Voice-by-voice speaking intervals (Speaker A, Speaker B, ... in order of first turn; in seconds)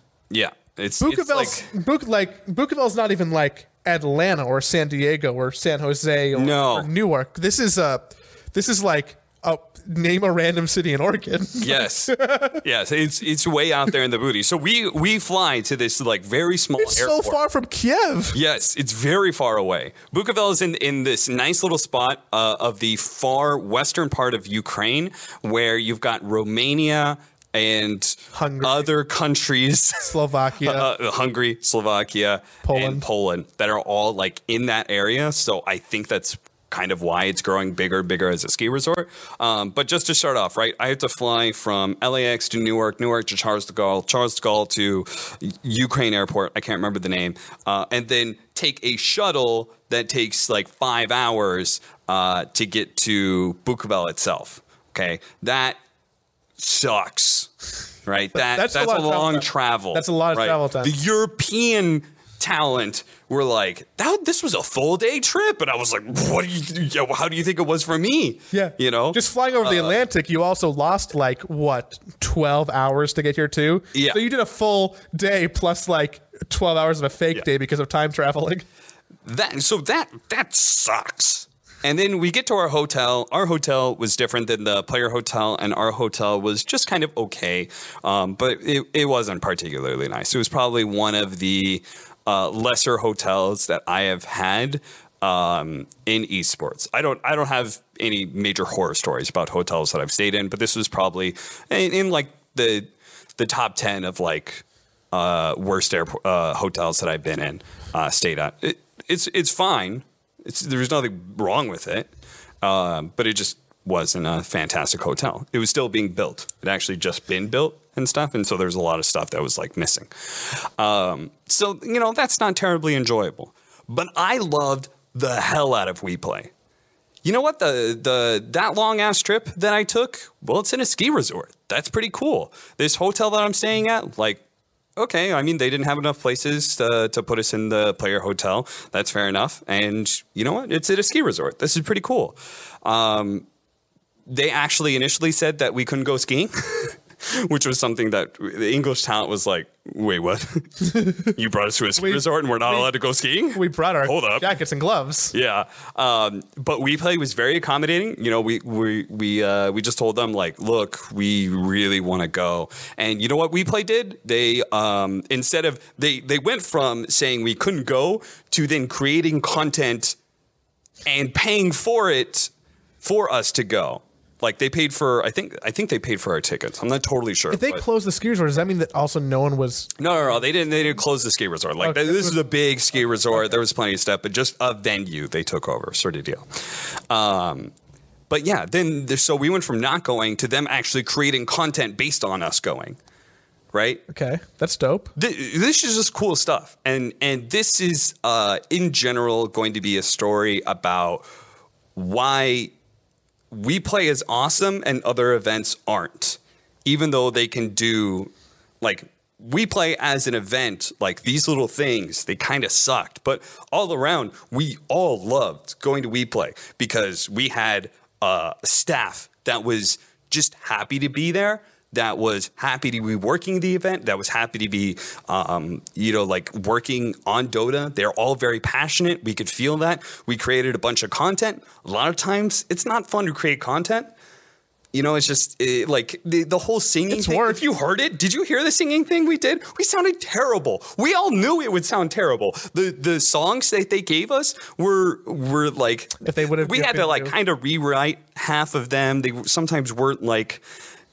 Speaker A: 0.3-1.7, 6.3-6.9, 11.6-17.4, 18.3-55.8, 56.6-57.5, 58.0-70.0, 73.9-74.2, 79.2-112.1, 112.6-126.5, 127.2-134.4, 135.0-143.5, 144.3-154.5, 155.3-170.2, 171.0-177.8, 180.0-187.7, 188.3-193.0, 193.7-194.0, 195.2-201.2, 201.9-202.7, 203.5-234.1, 234.9-250.6
Speaker B: 1.0-12.6, 16.8-18.4, 28.3-28.9, 30.1-30.9, 32.6-33.0, 58.3-60.9, 68.5-78.7, 150.8-151.3, 152.0-152.9, 153.5-155.3, 177.5-179.9, 181.8-182.4, 194.1-195.1, 237.1-237.6, 246.2-247.3